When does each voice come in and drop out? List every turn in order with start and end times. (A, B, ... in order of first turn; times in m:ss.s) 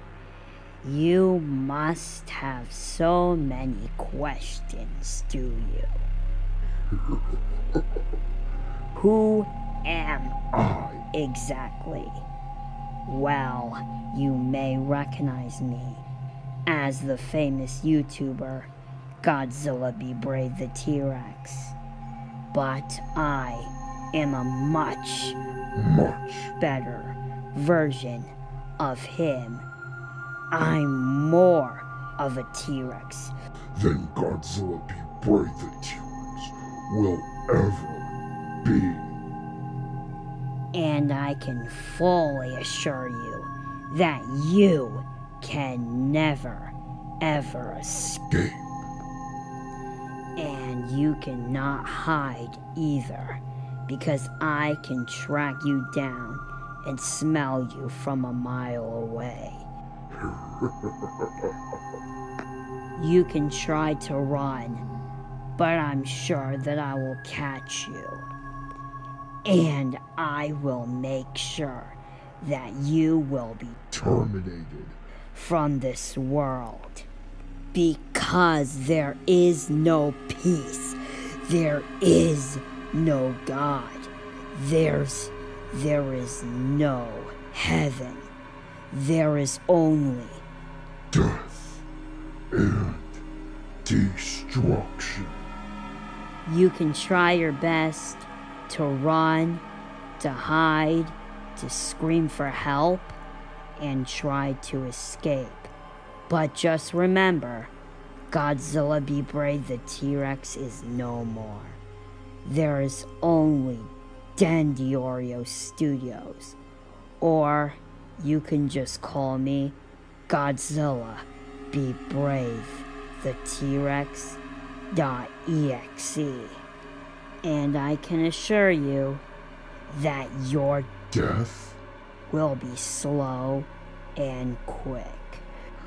0:00.8-0:06.0 A
0:08.9-0:10.4 A
0:10.5-0:11.0 B
0:11.1-0:12.2 A
0:13.0-0:16.0 A
0:16.7-0:18.7 A
0:19.2-0:21.8 A
0:22.5-0:25.4 A
0:25.7-0:26.5 B
0:26.6-0:29.6 A
0:30.5-0:33.3 A
0:33.7-0:39.2 B
0:40.7-0:48.2 A
0:48.3-0:48.8 B
0:50.4-0:59.6 A
1:00.1-1:01.0 B
1:03.0-1:04.8 A
1:05.6-1:08.2 A
1:09.4-1:13.8 A
1:13.9-1:15.0 B
1:15.3-1:17.1 A
1:17.7-1:28.3 A
1:28.9-1:30.4 A
1:31.1-1:31.8 B
1:32.5-1:33.2 B
1:33.8-1:35.5 B
1:36.4-1:39.6 A
1:40.2-1:43.2 A
1:43.8-1:45.7 A
1:46.3-1:47.7 A
1:48.3-1:51.8 A
1:52.4-1:56.6 A
1:57.2-1:59.8 A
2:00.3-2:04.4 A
2:04.9-2:06.6 A
2:07.4-2:09.2 A
2:09.9-2:10.9 A
2:11.1-2:11.8 B
2:12.3-2:15.4 A